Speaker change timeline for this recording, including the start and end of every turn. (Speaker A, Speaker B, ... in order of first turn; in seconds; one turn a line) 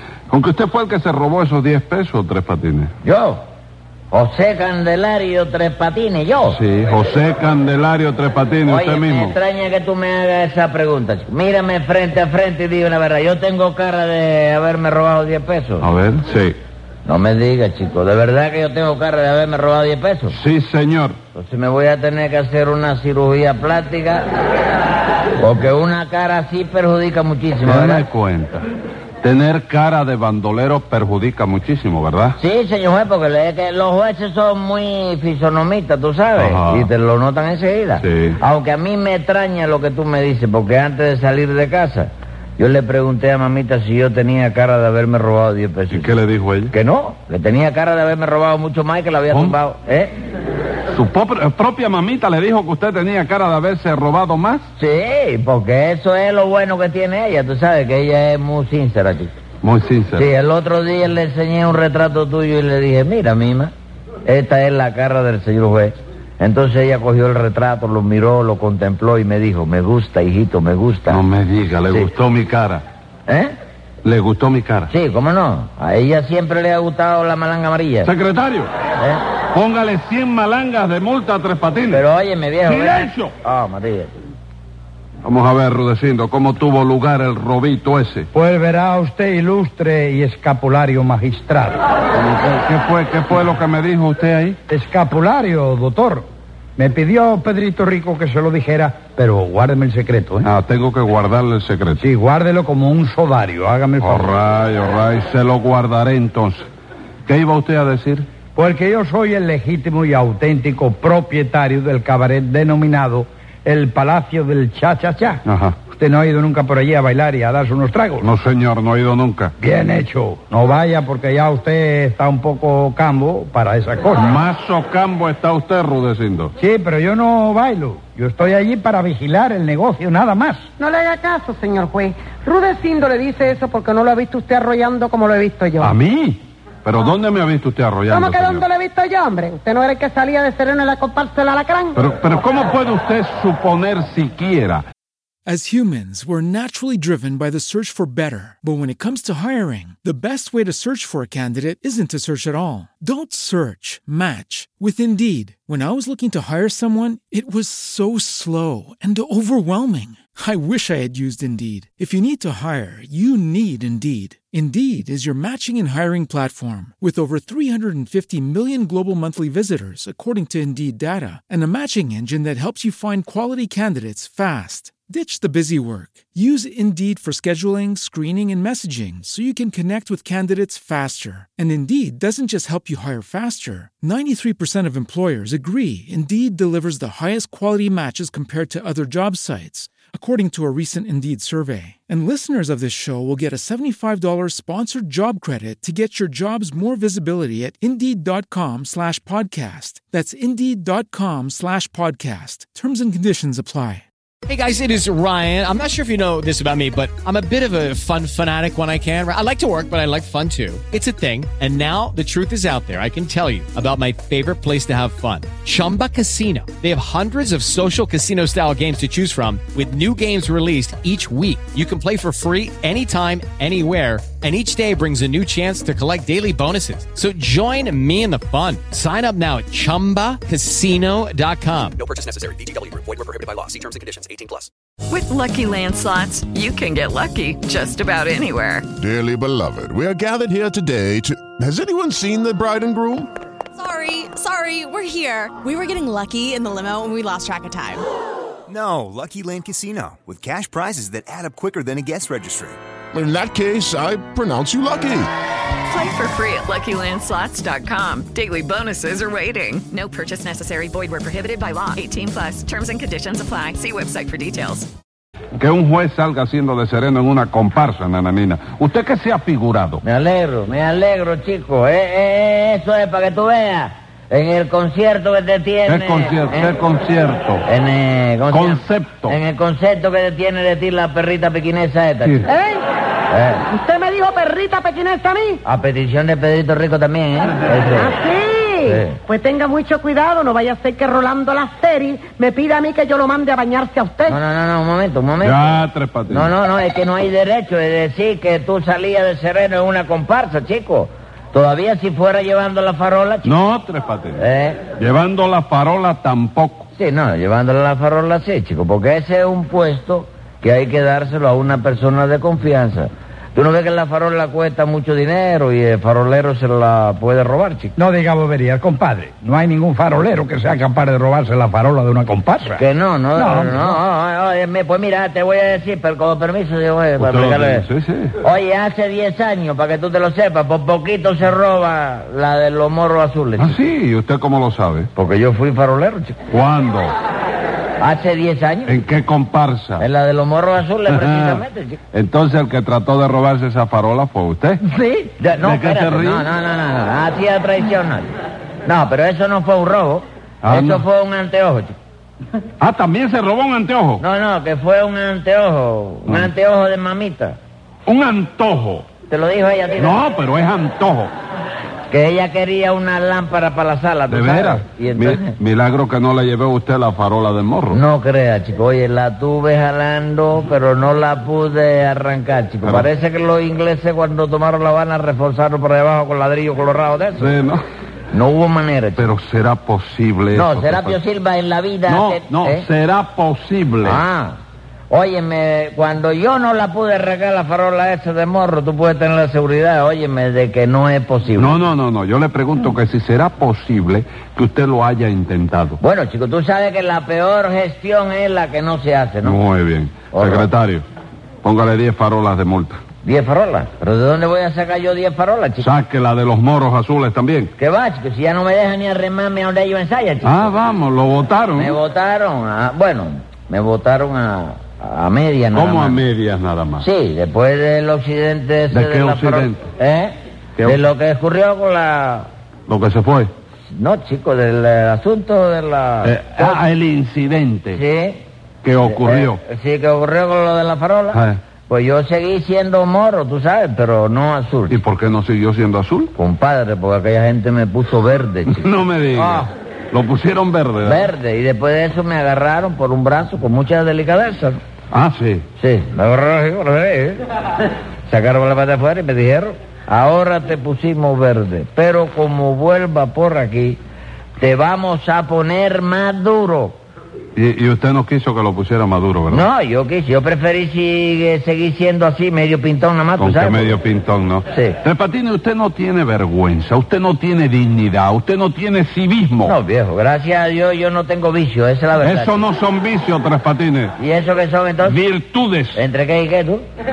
Speaker A: 0.3-2.9
Speaker B: 3.0-3.4
Speaker B: 4.1-6.6
Speaker A: 6.5-9.4
Speaker B: 8.7-15.9
Speaker A: 15.8-16.6
Speaker B: 17.1-20.4
Speaker A: 20.3-21.2
Speaker B: 21.4-24.3
Speaker B: 25.4-28.1
Speaker A: 27.6-28.6
Speaker A: 29.2-32.4
Speaker B: 32.4-46.2
Speaker A: 36.4-36.9
Speaker A: 38.0-38.4
Speaker A: 45.9-46.7
Speaker B: 46.7-50.1
Speaker A: 49.3-49.6
Speaker A: 50.9-54.6
Speaker B: 54.8-59.3
Speaker A: 59.6-60.3
Speaker B: 60.1-63.7
Speaker B: 64.3-71.2
Speaker A: 71.1-72.8
Speaker B: 73.3-73.5
Speaker A: 74.0-74.9
Speaker B: 74.9-78.1
Speaker A: 78.0-78.7
Speaker B: 79.0-79.2
Speaker A: 79.5-82.0
Speaker B: 81.9-84.1
Speaker A: 82.7-83.3
Speaker A: 85.2-88.3
Speaker C: 88.3-91.8
Speaker A: 92.2-94.6
Speaker C: 94.7-96.2
Speaker C: 96.8-100.5
Speaker A: 100.4-102.0
Speaker C: 102.0-104.3
Speaker A: 104.0-106.7
Speaker A: 107.3-108.3
Speaker C: 108.5-118.3
Speaker A: 115.5-115.8
Speaker A: 118.2-119.5
Speaker C: 119.6-124.4
Speaker A: 124.2-126.5
Speaker C: 126.6-130.7
Speaker D: 130.8-135.9
Speaker A: 135.8-138.7
Speaker D: 138.1-142.0
Speaker A: 142.0-144.8
Speaker E: 145.5-204.1
Speaker F: 204.5-232.0
Speaker G: 232.0-234.7
Speaker H: 235.1-238.9
Speaker I: 239.0-243.3
Speaker J: 243.8-248.1
Speaker K: 248.7-252.8
Speaker I: 253.1-255.3
Speaker H: 255.9-264.9
Speaker A: 265.6-270.0
Speaker B: 270.0-276.8
Speaker A: 275.9-277.6
Speaker B: 277.6-282.5
Speaker A: 278.5-279.4
Speaker A: 282.2-282.5
Speaker D: 282.5-282.8
Speaker B: 283.3-283.6
Speaker D: 283.7-285.6
Speaker B: 285.6-288.2
Speaker D: 287.9-294.4
Speaker B: 288.8-289.2
Speaker B: 294.3-303.5
Speaker A: 295.4-296.5
Speaker A: 303.4-304.4
Speaker B: 304.4-304.8
Speaker A: 305.0-306.9
Speaker B: 306.9-317.9
Speaker C: 318.0-322.8
Speaker B: 322.8-327.9
Speaker C: 323.4-324.0
Speaker A: 327.2-328.4
Speaker B: 328.4-333.9
Speaker A: 333.6-335.1
Speaker B: 335.1-336.4
Speaker A: 336.5-337.1
Speaker B: 338.0-339.0
Speaker A: 338.9-340.1
Speaker B: 340.0-342.0
Speaker A: 341.1-344.8
Speaker B: 344.8-348.3
Speaker A: 345.6-346.5
Speaker B: 348.9-351.9
Speaker A: 350.6-351.1
Speaker A: 352.8-354.2
Speaker B: 354.2-357.6
Speaker A: 356.3-356.5
Speaker A: 358.1-359.1
Speaker B: 359.2-360.2
Speaker A: 360.0-361.3
Speaker B: 362.1-365.6
Speaker A: 364.3-368.0
Speaker B: 367.9-377.6
Speaker A: 372.8-373.1
Speaker A: 377.4-377.8
Speaker B: 378.3-379.3
Speaker A: 379.2-381.2
Speaker B: 380.5-382.9
Speaker A: 382.1-384.2
Speaker B: 384.0-384.6
Speaker B: 385.1-391.8
Speaker A: 391.6-396.0
Speaker B: 396.0-399.6
Speaker A: 399.4-401.1
Speaker B: 400.3-400.7
Speaker A: 401.6-403.0
Speaker B: 403.2-405.9
Speaker A: 405.8-407.7
Speaker B: 407.8-410.8
Speaker A: 410.4-412.0
Speaker B: 411.7-416.2
Speaker A: 415.7-417.1
Speaker B: 417.0-422.5
Speaker A: 418.9-419.9
Speaker A: 420.8-421.0
Speaker A: 422.9-423.5
Speaker B: 423.9-426.8
Speaker A: 426.2-428.0
Speaker B: 427.9-428.4
Speaker A: 428.8-429.6
Speaker B: 429.0-435.0
Speaker A: 431.3-431.6
Speaker A: 434.9-436.3
Speaker B: 436.4-439.7
Speaker A: 438.7-441.3
Speaker B: 441.0-444.8
Speaker A: 445.1-445.7
Speaker B: 445.8-447.4
Speaker B: 448.3-454.0
Speaker B: 454.6-457.0
Speaker A: 457.6-459.7
Speaker B: 459.5-464.0
Speaker A: 463.4-469.8
Speaker B: 464.7-465.0
Speaker B: 469.6-472.6
Speaker A: 472.2-474.2
Speaker B: 474.2-475.2
Speaker A: 475.0-476.0
Speaker B: 475.9-476.8